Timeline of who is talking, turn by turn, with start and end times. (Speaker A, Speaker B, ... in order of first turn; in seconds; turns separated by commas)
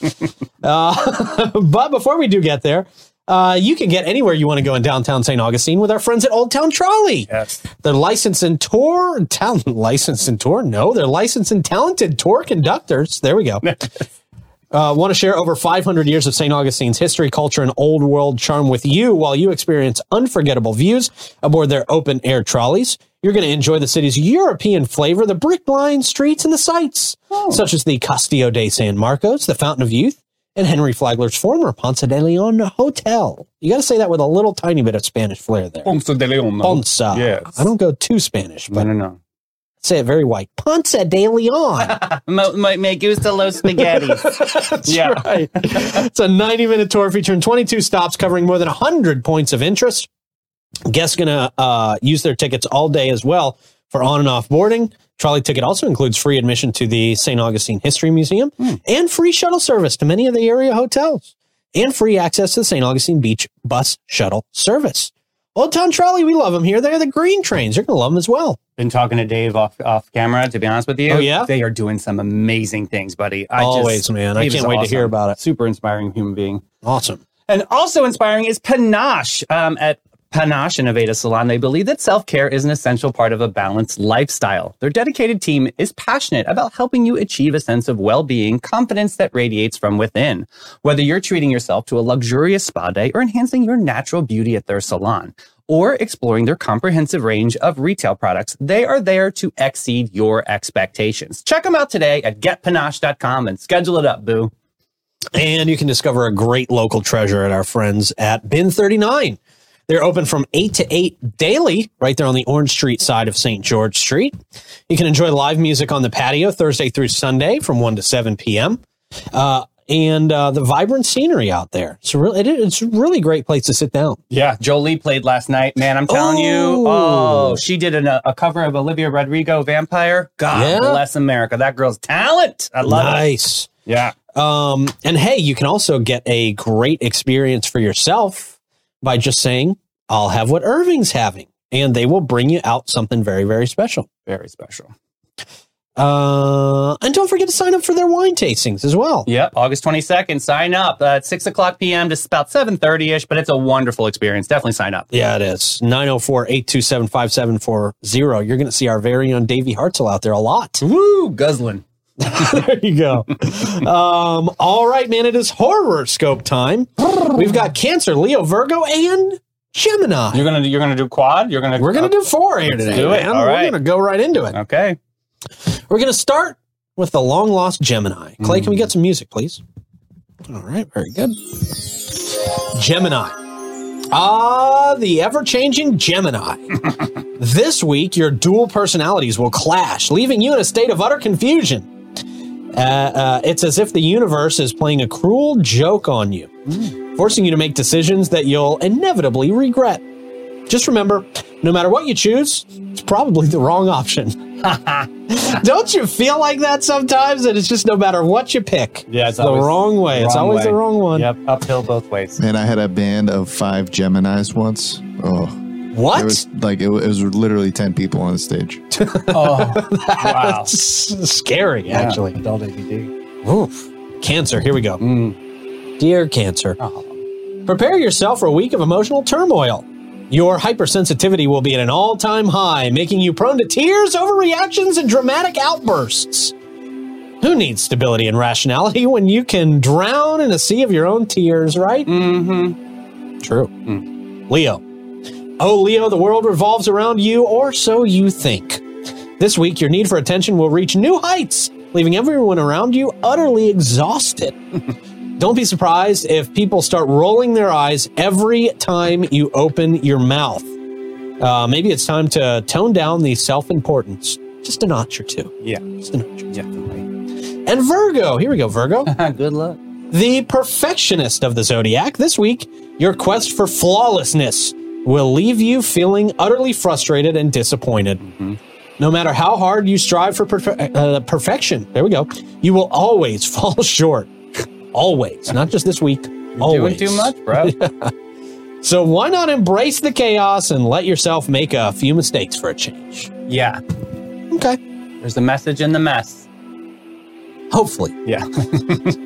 Speaker A: 0.6-13.6, Speaker B: 7.3-7.6, Speaker B: 13.6-13.9, Speaker A: 14.7-35.9, Speaker B: 27.3-27.6, Speaker B: 35.8-37.7, Speaker A: 36.6-38.9, Speaker B: 38.7-39.2, Speaker A: 39.8-42.0, Speaker B: 41.8-46.0, Speaker A: 43.6-50.1, Speaker A: 50.9-68.6, Speaker B: 68.8-76.6, Speaker A: 71.1-71.5, Speaker A: 73.6-75.4, Speaker A: 76.8-77.2, Speaker B: 77.5-104.5, Speaker A: 105.3-114.4, Speaker A: 114.9-118.8, Speaker A: 119.3-124.2, Speaker B: 124.3-133.2, Speaker A: 126.1-127.6, Speaker A: 130.5-131.0, Speaker A: 132.8-133.7, Speaker B: 133.9-134.2, Speaker A: 134.3-144.1, Speaker B: 144.3-144.9, Speaker A: 146.0-149.3, Speaker B: 149.3-155.1, Speaker A: 155.1-160.8, Speaker B: 160.8-161.8, Speaker A: 162.2-170.4, Speaker B: 170.3-173.8, Speaker A: 171.8-174.6, Speaker B: 174.5-175.0, Speaker A: 175.9-179.6, Speaker B: 178.4-178.8, Speaker A: 180.5-183.3, Speaker A: 184.1-191.9, Speaker A: 192.7-200.0, Speaker A: 200.7-204.4, Speaker B: 204.6-205.1, Speaker A: 205.3-211.3, Speaker B: 209.1-212.4, Speaker C: 212.4-218.8, Speaker A: 215.9-216.4, Speaker A: 218.9-222.4, Speaker B: 219.3-220.7, Speaker B: 221.9-223.1, Speaker A: 223.4-225.0, Speaker B: 225.0-225.4, Speaker A: 226.0-226.8, Speaker B: 226.8-227.1, Speaker A: 227.6-236.5, Speaker A: 237.4-242.1, Speaker B: 242.1-242.8, Speaker A: 243.4-243.9, Speaker A: 244.5-244.8, Speaker A: 245.6-248.8, Speaker A: 249.4-254.6, Speaker A: 255.4-260.7, Speaker A: 261.4-266.5, Speaker B: 266.5-267.0, Speaker A: 267.6-269.1, Speaker B: 269.1-269.8, Speaker A: 270.1-278.2, Speaker B: 278.2-278.6, Speaker A: 279.0-288.1, Speaker B: 286.6-287.8, Speaker A: 288.8-293.3, Speaker B: 293.5-293.8, Speaker A: 294.5-294.8, Speaker B: 295.2-296.4, Speaker A: 297.7-298.2, Speaker B: 298.2-299.2